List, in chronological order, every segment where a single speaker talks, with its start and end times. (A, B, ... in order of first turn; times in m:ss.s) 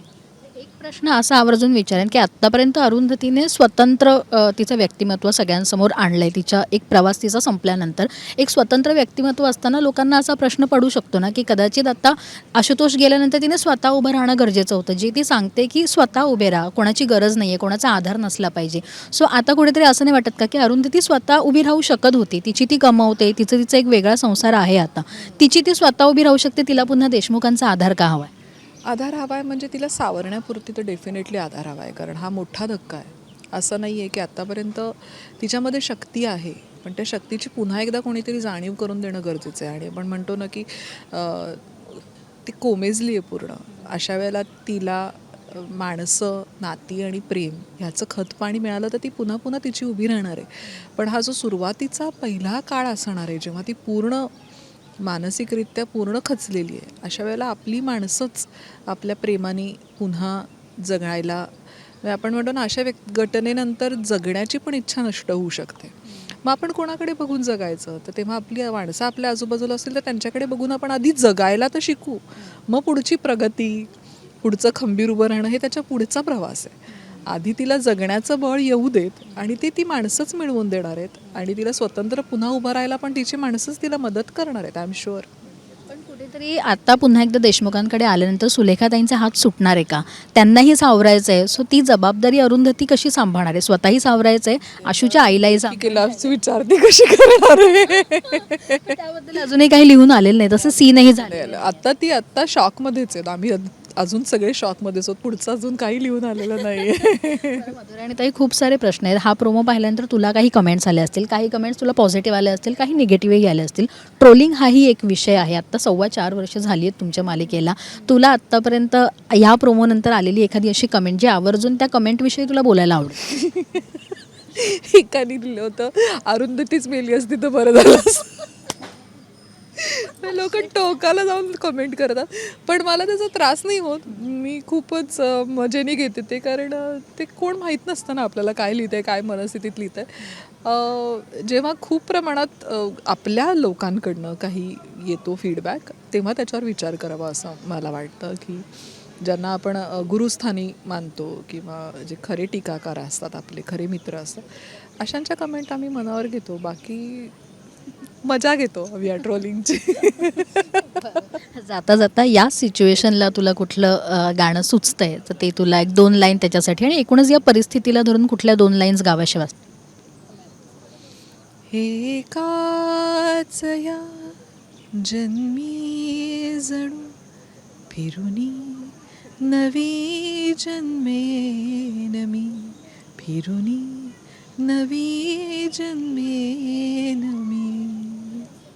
0:00.6-0:28.3 A
0:28.8-0:54.3 B
0:55.0-1:13.9 B
1:14.4-1:25.3 B
1:25.9-1:36.3 A
1:34.8-1:39.0 B
1:38.0-1:41.7 A
1:41.1-1:47.7 B
1:47.2-2:03.2 A
2:03.2-2:04.0 B
2:04.5-2:08.5 B
2:09.8-2:37.3 B
2:38.2-2:40.6 B
2:40.8-2:49.6 A
2:51.7-2:54.4 B
2:54.9-2:57.2 B
2:57.9-3:08.5 B